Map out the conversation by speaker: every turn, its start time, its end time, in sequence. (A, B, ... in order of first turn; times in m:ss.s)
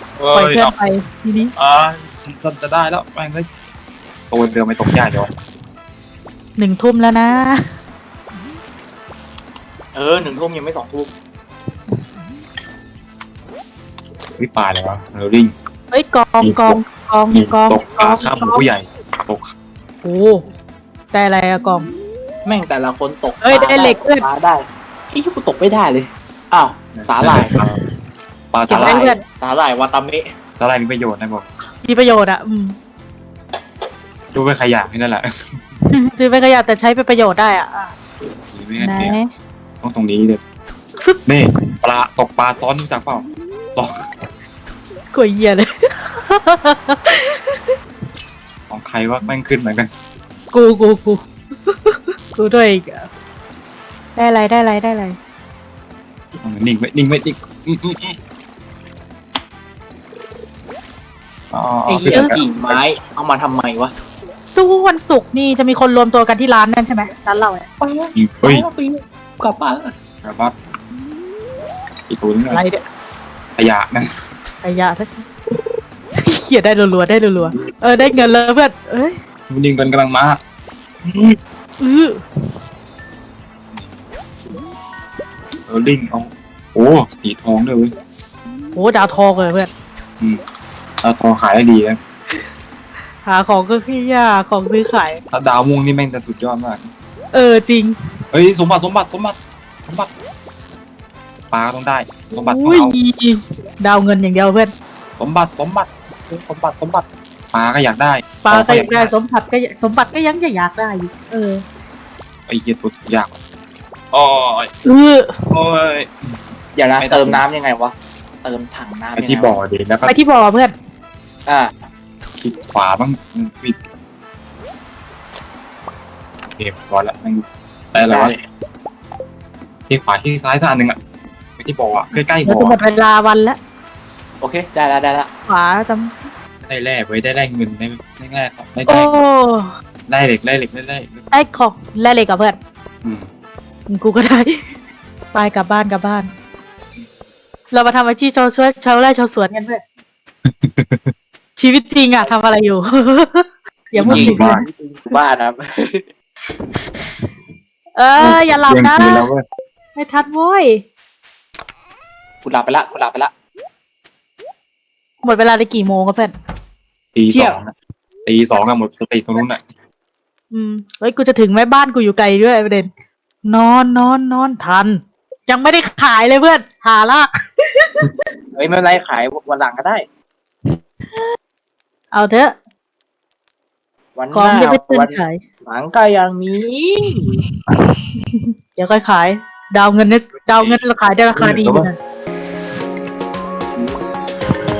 0:00.2-0:00.7 A
0:00.3-0:01.5 B
0:01.6-0:03.5 A
0:04.3-0:05.3 A
0:06.6-0:07.6 B
0:09.9-0:11.1 C
0:14.4-0:15.5 A
0:15.9-0:18.6 B
0:16.4-0:16.8 A
0:17.3-0:19.5 A
0:20.0-0:20.4 B
0:21.1-0:21.9 B
0:22.4-0:27.6 C
0:23.4-0:24.2 B
0:27.0-0:27.8 A
0:28.5-0:29.0 A
0:28.7-0:30.3 C
0:28.7-0:29.2 B
0:30.6-0:31.5 A
0:31.8-0:32.8 B
0:34.3-0:35.6 A
0:35.9-0:37.9 B
0:38.5-0:39.2 A
0:38.8-0:39.3 B
0:39.8-0:40.4 A
0:41.0-0:41.5 B
0:41.2-0:44.1 A
0:45.1-0:47.7 B
0:48.7-0:49.9 A
0:50.5-0:53.1 B
0:54.1-0:55.2 B
0:56.4-0:58.2 A
1:01.5-1:02.8 A
1:01.9-1:03.9 C
1:02.1-1:02.4 B
1:04.5-1:07.6 B
1:07.8-1:09.9 C
1:08.1-1:08.6 A
1:10.2-1:10.5 A
1:12.1-1:12.6 A
1:12.5-1:12.8 B
1:13.6-1:14.1 A
1:14.6-1:15.2 B
1:16.2-1:19.2 B
1:19.5-1:20.4 A
1:21.0-1:21.4 A
1:21.8-1:22.2 B
1:25.7-1:27.9 A
1:28.7-1:29.7 B
1:31.0-1:32.0 A
1:33.2-1:35.2 B
1:35.3-1:36.9 A
1:37.3-1:37.9 B
1:38.3-1:40.1 A
1:41.5-1:43.0 A
1:42.3-1:44.7 B
1:45.2-1:49.1 A
1:48.4-1:51.6 B
1:52.5-1:53.4 A
1:54.1-1:54.7 A
1:54.8-1:55.4 B
1:55.5-1:56.4 A
1:56.7-1:59.6 C
1:57.0-1:57.4 A
1:59.2-2:00.1 A
2:00.0-2:00.7 B
2:01.4-2:01.7 C
2:02.4-2:03.8 A
2:06.4-2:08.3 A
2:08.0-2:08.4 C
2:09.9-2:11.0 A
2:11.6-2:12.8 A
2:12.4-2:13.6 B
2:14.4-2:15.3 C
2:15.5-2:16.2 B
2:16.6-2:19.2 A
2:18.8-2:19.7 B
2:20.1-2:21.2 A
2:21.3-2:22.6 B
2:23.9-2:24.6 B
2:25.3-2:26.3 B
2:27.7-2:29.8 B
2:30.4-2:31.1 A
2:31.6-2:34.6 B
2:33.9-2:36.1 C
2:34.0-2:34.6 A
2:37.9-2:39.3 B
2:38.2-2:39.4 A
2:39.9-2:40.8 B
2:42.4-2:43.3 C
2:45.2-2:46.3 B
2:47.1-2:47.7 A
2:47.3-2:47.6 C
2:48.2-2:49.6 A
2:50.5-2:52.9 B
2:53.4-2:58.1 B
2:58.5-3:00.0 C
3:02.1-3:02.6 B
3:04.2-3:07.4 C
3:04.3-3:05.4 B
3:07.8-3:12.0 B
3:10.6-3:11.9 A
3:13.7-3:14.2 C